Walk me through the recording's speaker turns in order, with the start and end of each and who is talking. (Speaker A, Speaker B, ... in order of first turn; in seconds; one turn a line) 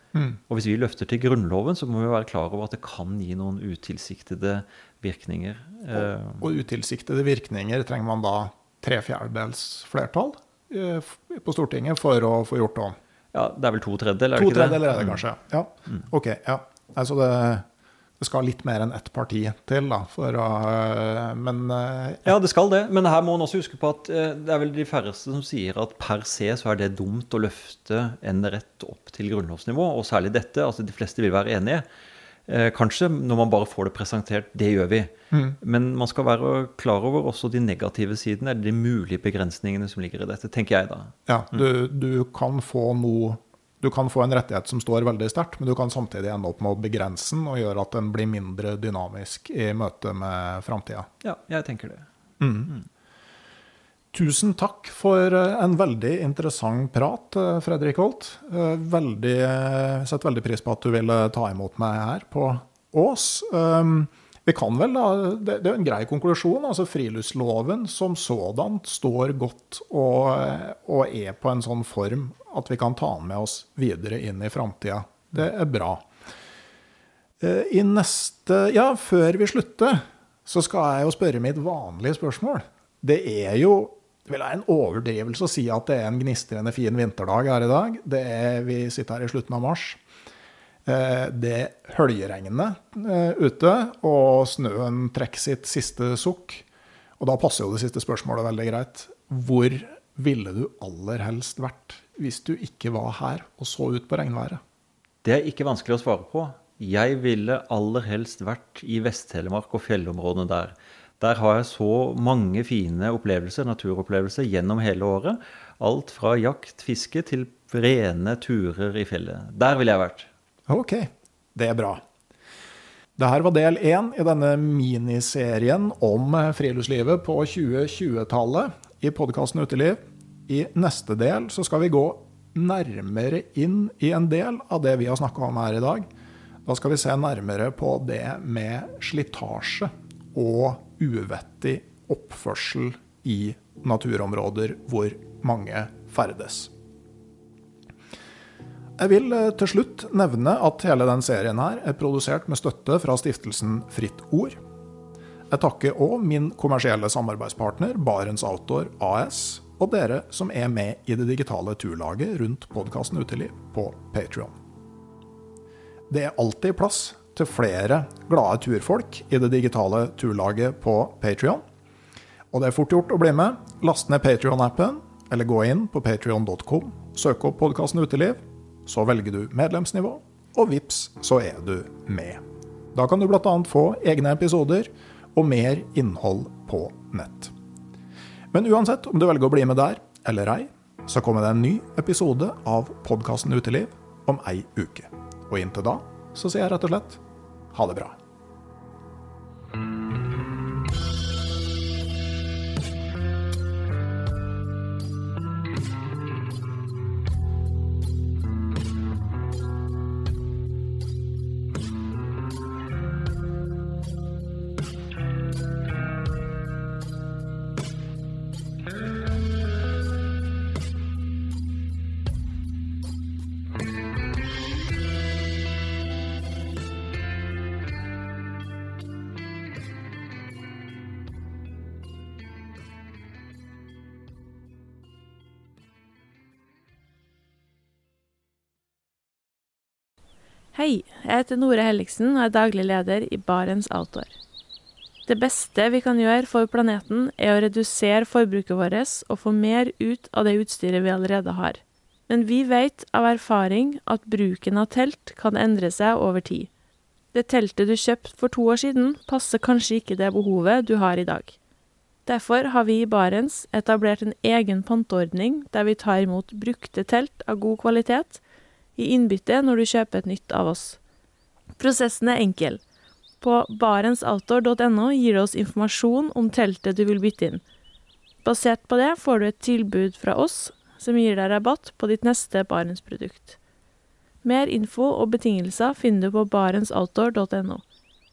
Speaker A: 0.1-0.4
Speaker B: 0.5-6.5
Speaker A: 5.9-12.9
Speaker B: 13.3-15.2
Speaker A: 14.3-17.6
Speaker A: 18.2-22.3
Speaker B: 22.2-31.8
Speaker B: 32.5-41.1
Speaker A: 35.3-35.6
Speaker A: 41.3-51.1
Speaker B: 51.2-52.1
Speaker A: 52.4-52.7
Speaker A: 54.1-76.0
Speaker A: 77.4-90.0
Speaker A: 90.8-96.6
Speaker A: 97.2-104.6
Speaker B: 105.2-120.3
Speaker A: 120.7-122.0
Speaker A: 123.2-136.1
Speaker A: 136.7-146.7
Speaker A: 149.0-154.6
Speaker A: 155.5-164.5
Speaker A: 166.1-171.6
Speaker A: 172.5-182.4
Speaker A: 182.9-187.5
Speaker A: 188.5-197.2
Speaker A: 197.7-198.2
Speaker C: 240.7-244.3
Speaker C: 245.2-256.7
Speaker C: 257.3-261.6
Speaker C: 262.2-268.4
Speaker C: 268.9-271.0
Speaker C: 271.8-272.8
Speaker C: 273.4-277.6
Speaker C: 278.4-283.6
Speaker C: 284.4-287.8